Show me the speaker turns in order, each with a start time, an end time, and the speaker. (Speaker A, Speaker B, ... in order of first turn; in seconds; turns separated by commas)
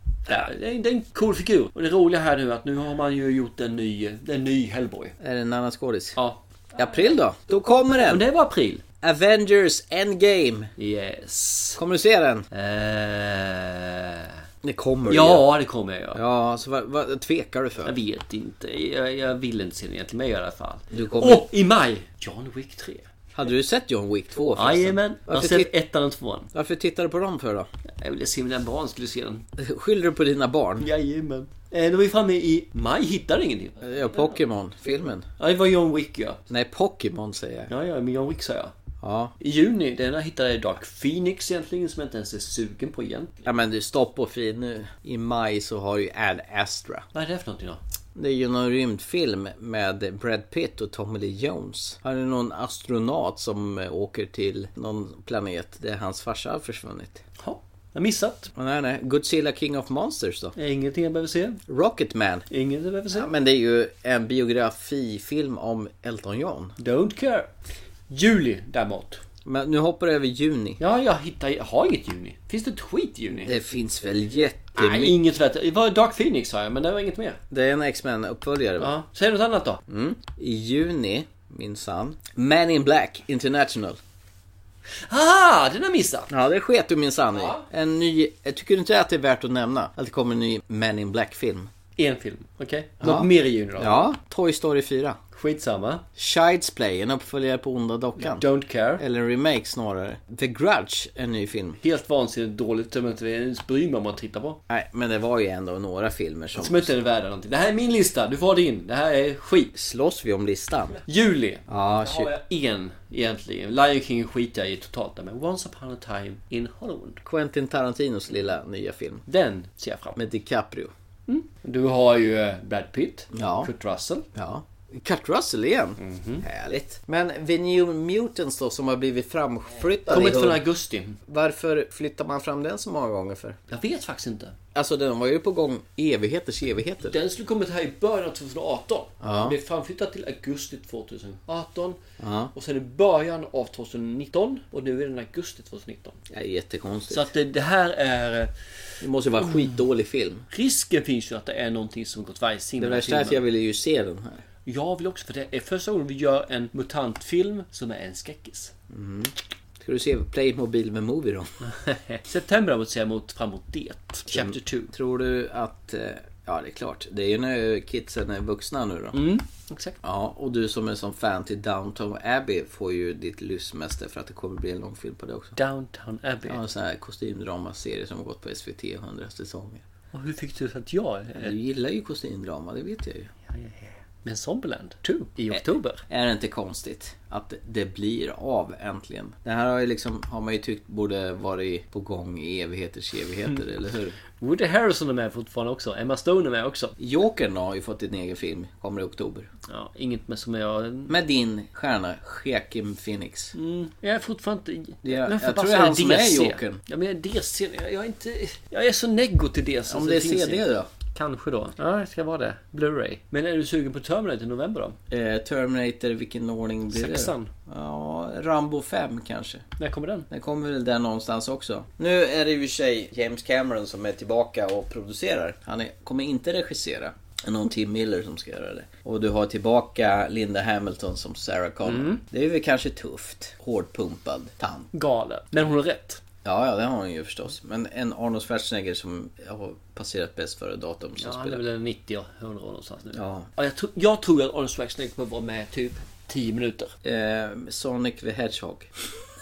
Speaker A: 0.3-5.2, Speaker B: 5.2-6.2, Speaker A: 6.2-7.0, Speaker B: 6.8-8.2, Speaker A: 8.1-8.8, Speaker B: 9.0-10.7, Speaker A: 10.8-11.8, Speaker B: 11.8-12.5, Speaker A: 12.5-14.4, Speaker B: 14.6-15.5, Speaker A: 15.1-16.2, Speaker B: 16.1-18.0, Speaker A: 17.9-23.1, Speaker B: 20.9-21.5, Speaker B: 23.4-25.7, Speaker A: 24.6-26.5, Speaker B: 26.5-27.7, Speaker A: 28.0-29.5, Speaker B: 29.6-30.9, Speaker A: 30.8-34.4, Speaker B: 33.8-35.3, Speaker A: 35.4-36.4, Speaker B: 36.5-37.7, Speaker A: 37.7-38.7, Speaker B: 39.0-39.4, Speaker A: 39.4-43.4, Speaker B: 43.5-47.0, Speaker A: 47.1-47.8, Speaker B: 48.1-57.2, Speaker A: 57.4-58.5, Speaker B: 58.5-60.5, Speaker A: 60.6-61.6, Speaker B: 61.7-62.5, Speaker A: 62.5-63.3, Speaker B: 63.1-66.7, Speaker A: 66.8-67.6, Speaker A: 68.1-69.2, Speaker B: 69.5-70.8, Speaker A: 70.8-73.5, Speaker B: 73.4-75.2, Speaker A: 74.8-77.4, Speaker B: 77.5-78.9, Speaker A: 78.8-79.8, Speaker B: 79.9-84.0, Speaker A: 85.1-86.3, Speaker B: 86.3-91.7, Speaker A: 87.4-87.6, Speaker A: 92.0-94.1, Speaker B: 93.0-95.2, Speaker A: 95.3-96.0, Speaker B: 96.2-98.5, Speaker A: 98.2-99.0, Speaker B: 99.0-101.8, Speaker A: 101.8-104.6, Speaker B: 104.7-106.9, Speaker A: 106.5-109.7, Speaker B: 109.7-111.0, Speaker A: 111.0-117.2, Speaker B: 111.7-112.3, Speaker B: 117.2-119.2, Speaker A: 119.3-120.2, Speaker B: 120.2-120.9, Speaker A: 121.3-124.3, Speaker B: 123.3-123.7, Speaker B: 124.3-130.6, Speaker A: 126.0-126.4, Speaker A: 130.1-131.2, Speaker B: 131.3-133.6, Speaker A: 133.7-134.6, Speaker B: 134.7-137.2, Speaker A: 137.0-142.0, Speaker B: 139.2-139.6, Speaker B: 142.2-142.5, Speaker A: 142.6-146.2, Speaker B: 146.3-147.3, Speaker A: 147.1-148.5, Speaker B: 149.0-150.5, Speaker A: 150.5-153.4, Speaker B: 152.8-154.4, Speaker A: 154.7-158.7, Speaker B: 158.9-161.5, Speaker A: 161.6-164.9, Speaker B: 164.3-169.2, Speaker A: 169.1-170.0, Speaker B: 170.0-175.6, Speaker A: 175.6-176.6, Speaker B: 176.5-179.8, Speaker A: 180.1-181.5, Speaker B: 181.4-183.3, Speaker A: 183.5-186.0, Speaker B: 185.5-194.2, Speaker A: 194.4-197.0, Speaker B: 197.0-199.5, Speaker A: 199.7-201.2, Speaker B: 201.1-203.5, Speaker A: 203.6-215.0, Speaker B: 205.0-206.8, Speaker B: 209.9-210.9, Speaker B: 215.1-219.7, Speaker A: 216.9-217.5, Speaker A: 219.8-220.3, Speaker B: 220.3-234.9, Speaker A: 231.8-232.2, Speaker A: 234.9-236.2, Speaker B: 236.4-241.6, Speaker A: 241.2-246.9, Speaker B: 243.1-243.5, Speaker B: 247.0-248.9